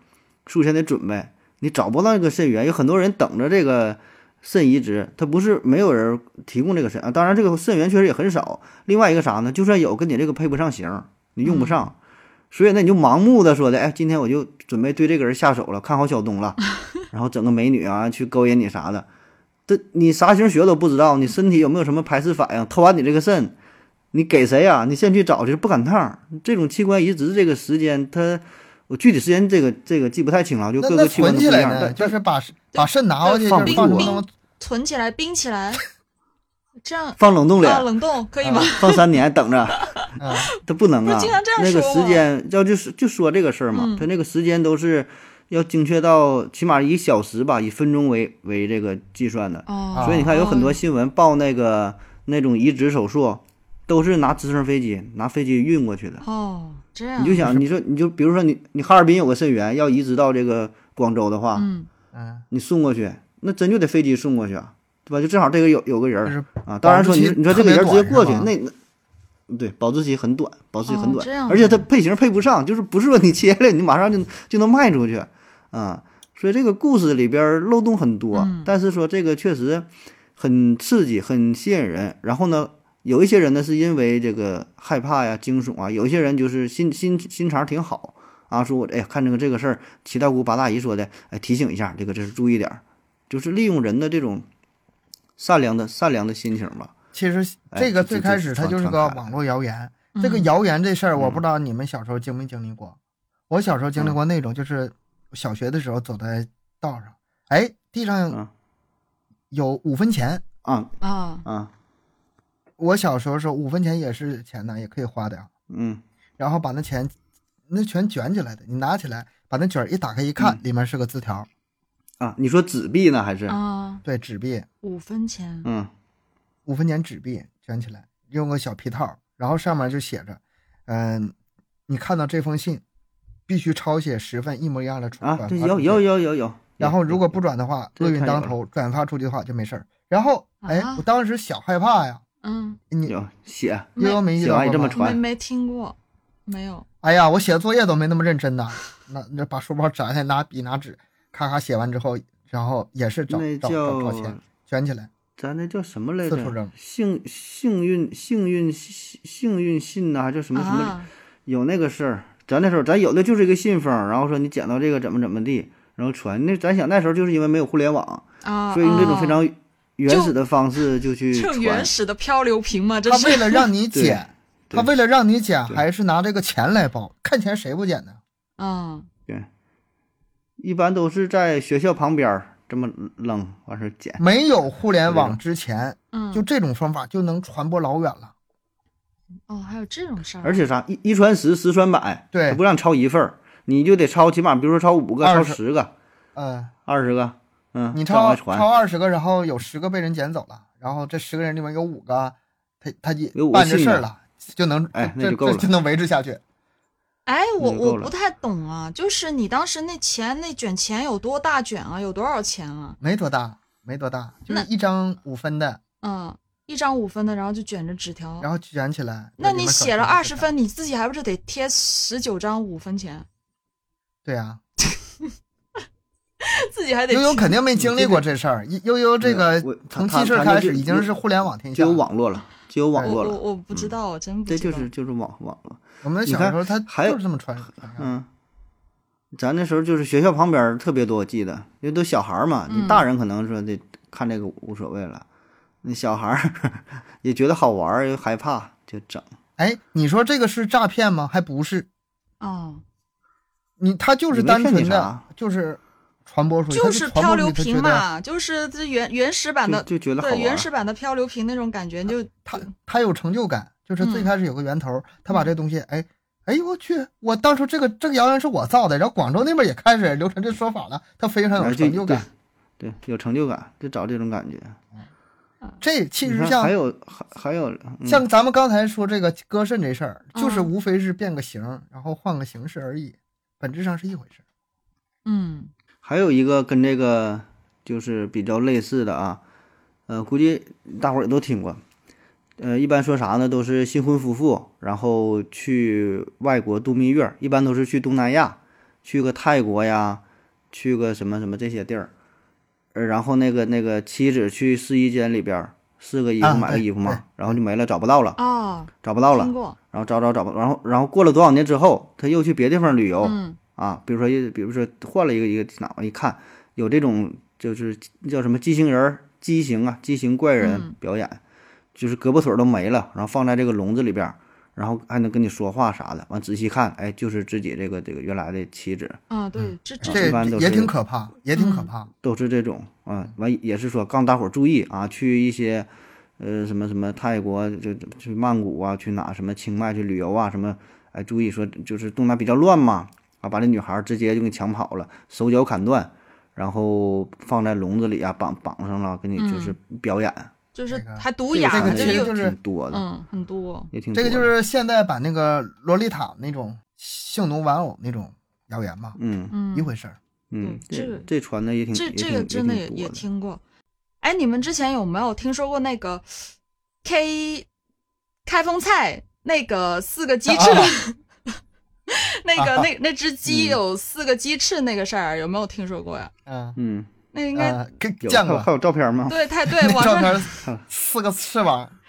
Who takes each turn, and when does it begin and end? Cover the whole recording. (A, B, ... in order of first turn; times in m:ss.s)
0:00.5-0:12.0 A
0:11.4-0:11.9 B
0:12.5-0:16.6 A
0:17.1-0:19.1 A
0:19.7-0:23.6 A
0:24.1-0:32.2 A
0:30.8-0:34.3 C
0:32.7-0:35.8 B
0:33.4-0:34.1 A
0:36.8-0:39.1 B
0:37.2-0:37.9 A
0:38.4-0:38.7 C
0:38.6-0:39.9 A
0:39.7-0:42.3 B
0:40.2-0:40.5 C
0:40.6-0:56.2 A
0:43.7-0:44.1 B
0:49.7-0:50.8 B
0:49.9-0:50.3 C
0:56.2-0:57.5 B
0:57.2-1:01.7 A
1:01.6-1:01.9 B
1:02.1-1:02.4 C
1:02.5-1:08.8 A
1:06.2-1:08.5 C
1:09.5-1:34.5 A
1:10.9-1:11.9 B
1:18.3-1:18.7 B
1:35.4-1:36.9 A
1:37.1-1:43.0 C
1:37.7-1:39.3 A
1:40.2-1:40.5 B
1:41.2-1:41.4 A
1:43.5-1:48.4 C
1:49.5-1:50.4 C
1:50.6-1:50.9 A
1:51.0-1:51.5 B
1:51.4-1:51.7 A
1:52.8-1:55.5 C
1:55.7-1:56.0 A
1:56.4-1:57.2 C
1:57.7-2:01.5 C
2:02.2-2:03.6 A
2:03.5-2:04.0 B
2:04.0-2:04.7 C
2:04.8-2:05.7 B
2:05.6-2:05.9 A
2:06.7-2:11.4 C
2:11.9-2:12.8 C
2:13.5-2:16.0 C
2:15.2-2:17.4 A
2:16.8-2:22.2 C
2:18.0-2:18.5 A
2:20.6-2:21.0 B
2:22.4-2:22.8 B
2:23.1-2:25.2 A
2:24.0-2:24.2 B
2:24.0-2:25.0 C
2:24.9-2:26.0 B
2:26.5-2:26.9 B
2:27.0-2:35.1 C
2:33.3-2:34.4 A
2:35.4-2:51.9 A
2:36.3-2:36.7 C
2:40.6-2:41.1 B
2:48.4-2:49.4 B
2:50.1-2:50.4 B
2:51.3-2:53.7 B
2:53.1-2:58.2 C
2:53.9-2:54.9 A
2:58.6-2:59.1 B
3:00.6-3:04.2 A
3:04.2-3:08.3 C
3:05.1-3:05.4 A
3:06.1-3:06.4 B
3:09.5-3:10.6 B
3:10.4-3:15.9 A
3:12.3-3:12.6 C
3:15.2-3:15.6 C
3:16.4-3:16.7 C
3:16.9-3:18.7 A
3:17.9-3:26.4 C
3:23.4-3:24.1 A
3:24.9-3:25.7 A
3:27.3-3:33.0 B
3:27.6-3:28.1 A
3:33.0-3:35.8 C
3:36.0-3:38.5 B
3:38.4-3:40.5 C
3:39.4-3:43.3 B
3:44.2-3:44.6 C
3:45.0-3:45.3 B
3:46.4-3:47.6 B
3:47.1-3:52.0 C
3:47.8-3:48.2 A
3:49.2-3:51.1 A
3:51.7-3:54.0 A
3:53.0-3:54.9 B
3:54.5-3:57.2 A
3:56.0-3:58.1 C
3:58.0-3:58.3 A
3:59.3-4:05.3 A
4:02.7-4:03.1 B
4:05.8-4:09.3 A
4:09.6-4:11.9 C
4:12.4-4:12.8 B
4:13.8-4:18.0 C
4:14.3-4:15.2 A
4:16.7-4:22.7 B
4:19.6-4:20.7 A
4:22.4-4:32.3 C
4:24.0-4:24.3 B
4:31.6-4:32.3 A
4:32.8-4:34.8 A
4:35.8-4:36.7 C
4:36.2-4:38.2 A
4:38.1-4:44.4 C
4:40.4-4:40.7 B
4:45.2-4:45.7 B
4:46.0-4:49.4 A
4:50.1-4:51.8 A
4:52.6-5:02.1 A
5:02.9-5:08.4 A
5:06.4-5:07.2 C
5:08.4-5:09.8 B
5:09.0-5:21.4 A
5:13.2-5:13.6 B
5:20.6-5:20.9 B
5:22.0-5:29.2 A
5:29.3-5:30.3 B
5:29.6-5:32.1 C
5:30.0-5:30.9 A
5:31.6-5:31.9 B
5:32.2-5:50.5 A
5:49.4-5:49.8 B
5:50.8-5:52.3 B
5:50.9-5:52.6 C
5:51.5-5:53.0 A
5:52.9-5:53.9 B
5:53.9-5:54.5 A
5:54.1-5:59.2 C
5:59.2-5:59.5 A
5:59.5-5:59.9 B
5:59.7-6:00.2 C
6:00.5-6:03.2 A
6:00.6-6:01.3 B
6:01.9-6:03.6 B
6:04.2-6:06.5 B
6:07.0-6:07.7 B
6:08.5-6:11.2 B
6:10.5-6:11.0 C
6:12.1-6:16.3 B
6:12.6-6:12.9 C
6:13.5-6:13.8 A
6:16.5-6:16.8 C
6:16.8-6:17.1 A
6:17.3-6:17.8 B
6:17.5-6:18.7 C
6:18.2-6:19.4 A
6:19.3-6:20.5 B
6:19.7-6:22.0 C